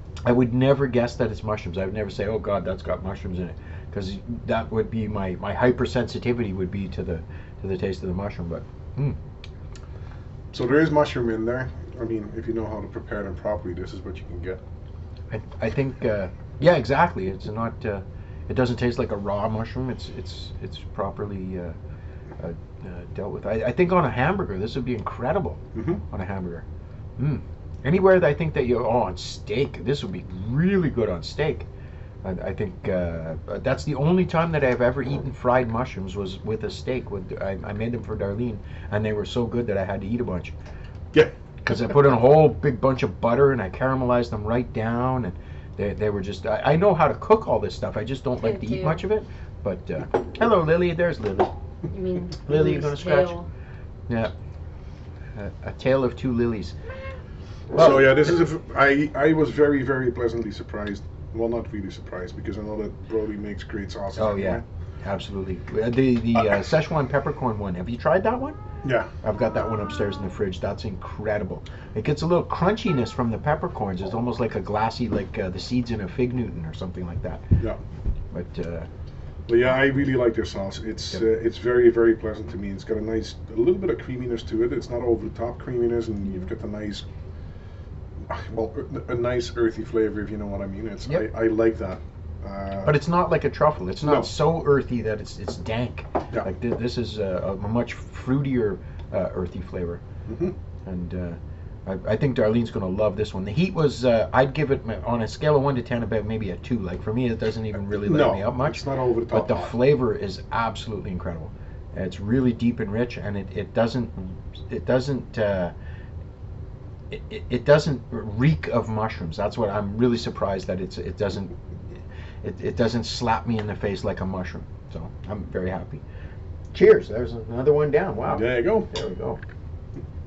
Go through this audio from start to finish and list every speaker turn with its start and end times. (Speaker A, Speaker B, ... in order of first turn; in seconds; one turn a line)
Speaker A: 0.2-9.2
Speaker B: 10.5-14.6
Speaker A: 15.3-21.8
Speaker A: 22.4-26.6
Speaker B: 25.7-26.0
Speaker A: 27.2-31.6
Speaker A: 32.2-40.5
Speaker A: 41.6-51.5
Speaker C: 48.4-49.0
Speaker C: 51.9-53.5
Speaker A: 52.4-53.4
Speaker A: 55.4-56.8
Speaker A: 57.7-58.3
Speaker B: 57.7-64.6
Speaker A: 64.2-68.6
Speaker B: 68.8-69.1
Speaker A: 69.2-77.4
Speaker A: 78.3-78.9
Speaker B: 79.5-87.0
Speaker B: 88.3-93.0
Speaker A: 92.8-100.0
Speaker B: 94.0-94.3
Speaker B: 100.2-100.5
Speaker A: 100.8-115.7
Speaker B: 107.8-109.8
Speaker A: 117.1-126.0
Speaker A: 126.7-129.4
Speaker B: 128.2-128.9